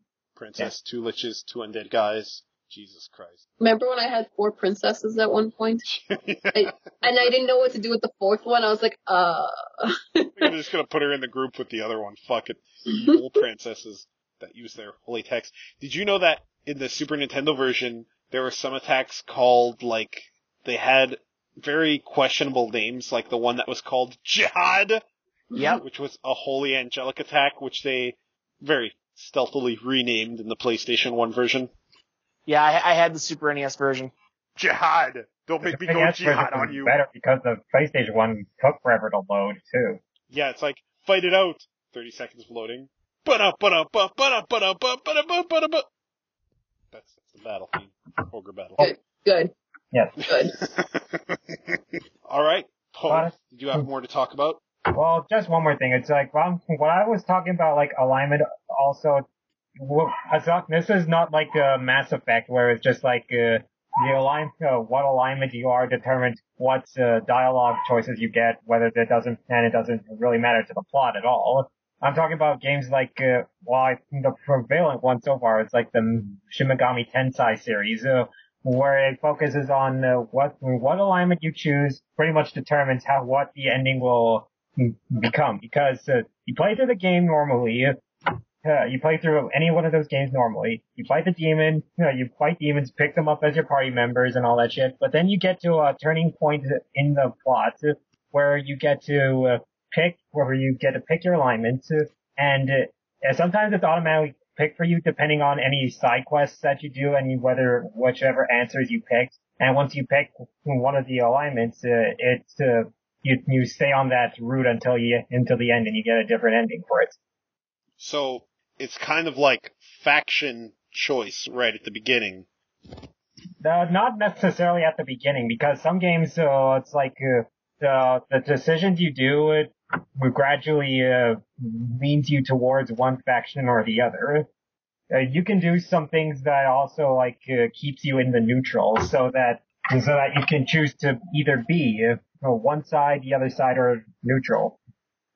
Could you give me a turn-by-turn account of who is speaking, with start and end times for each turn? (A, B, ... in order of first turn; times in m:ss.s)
0:00.4-0:03.4 A
0:03.6-0:05.8 B
0:05.9-0:07.3 A
0:06.5-0:10.5 B
0:10.4-0:25.0 A
0:25.5-0:25.8 B
0:25.6-0:25.8 C
0:25.8-0:31.7 A
0:32.5-0:34.1 C
0:34.6-0:37.0 A
0:35.6-0:40.0 D
0:40.3-0:45.9 A
0:46.9-0:48.8 A
0:48.8-0:49.5 B
0:49.9-0:50.2 D
0:50.2-0:50.6 B
0:50.3-0:54.6 A
0:53.1-0:53.9 D
0:54.9-0:59.2 D
0:59.8-1:28.0 D
1:28.6-1:57.2 D
1:58.0-2:02.5 A
2:03.6-2:14.5 D
2:15.1-2:24.8 D